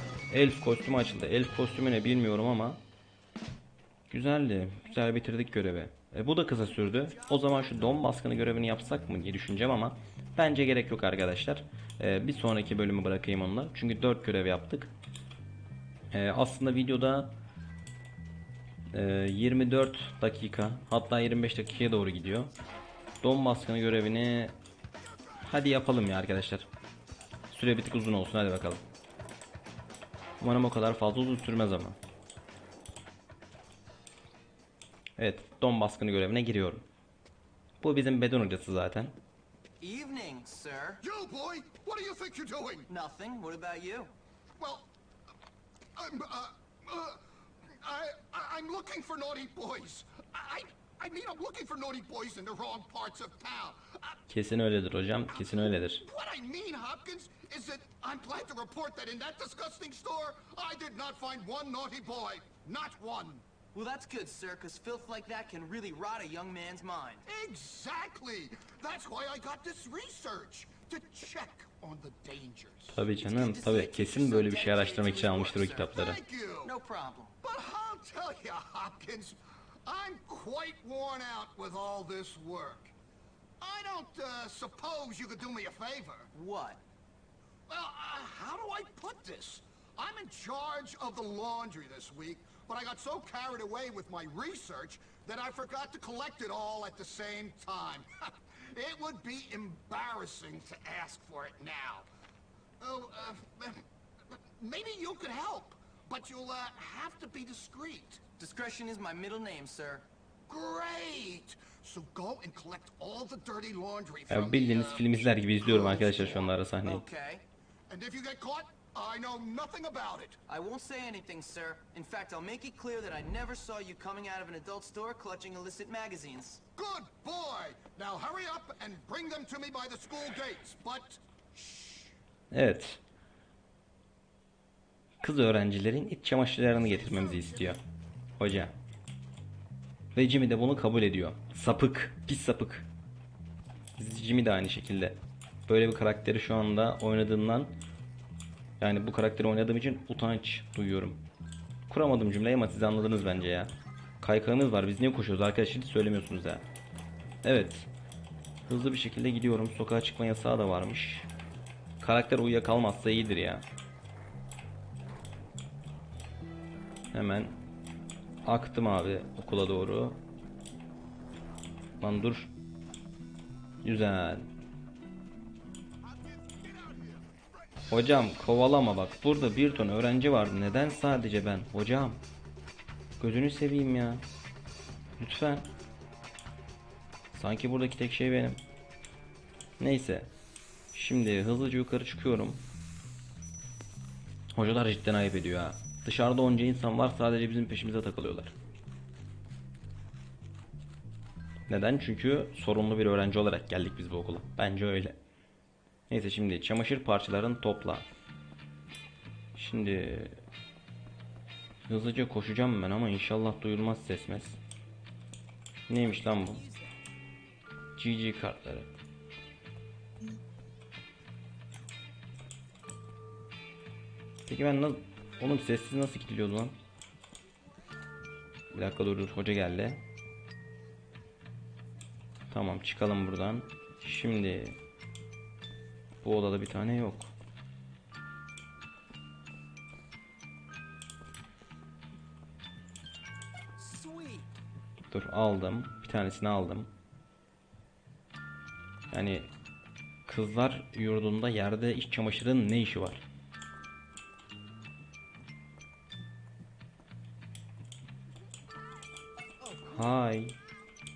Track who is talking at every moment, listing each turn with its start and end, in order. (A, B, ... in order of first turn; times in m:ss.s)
0:00.3-0:02.8 A
0:04.1-0:14.9 A
0:16.1-0:17.3 A
0:18.9-0:22.5 A
0:23.2-0:24.6 A
0:25.4-0:26.7 A
0:27.5-0:28.8 A
0:30.4-0:32.0 A
0:35.2-0:36.8 A
0:37.8-0:39.2 A
0:39.8-0:41.0 B
0:41.0-0:42.9 C
0:42.9-0:44.1 B
0:44.6-0:44.9 C
0:46.0-0:54.2 C
0:54.3-0:56.0 A
0:55.3-1:03.4 C
1:03.7-1:07.2 B
1:07.2-1:13.1 C
1:12.9-1:16.2 A
1:13.2-1:16.0 B
1:15.9-1:16.7 C
1:16.6-1:17.4 B
1:17.4-1:22.9 C
1:23.6-1:26.3 C
1:26.3-1:26.8 B
1:27.7-1:42.1 C
1:42.8-1:48.2 C
1:48.4-1:50.1 B
1:50.5-1:56.5 C
1:54.3-1:57.0 A
1:56.8-1:57.4 B
1:57.9-2:00.4 C
2:00.5-2:06.6 B
2:06.8-2:12.1 C
2:12.5-2:13.0 A
2:15.2-2:17.8 A
2:18.4-2:18.8 A
2:20.1-2:22.9 A
2:24.0-2:27.8 A
2:28.8-2:31.2 A
2:31.9-2:36.6 A
2:37.4-2:37.9 A
2:38.6-2:41.3 A
2:42.0-2:43.6 A
2:47.1-2:47.6 A
2:48.4-2:50.2 A
2:52.0-2:52.5 A
2:53.8-2:54.5 A
2:57.9-3:02.2 A
3:03.2-3:04.2 A
3:05.2-3:05.7 A
3:07.3-3:08.6 A
3:09.8-3:10.3 A
3:10.9-3:12.6 A
3:14.5-3:18.5 A
3:21.7-3:25.2 A
3:26.1-3:28.1 A
3:29.5-3:30.4 A
3:31.9-3:34.6 A
3:35.9-3:36.6 A
3:36.0-3:37.0 B
3:38.0-3:38.9 A
3:44.5-3:46.8 A
3:48.7-3:50.0 A
3:52.5-3:54.8 A
3:56.2-3:57.3 A
4:03.8-4:04.5 B
4:05.1-4:06.9 A
4:09.1-4:09.5 A
4:10.2-4:13.2 A
4:19.6-4:20.0 B
4:19.9-4:20.6 A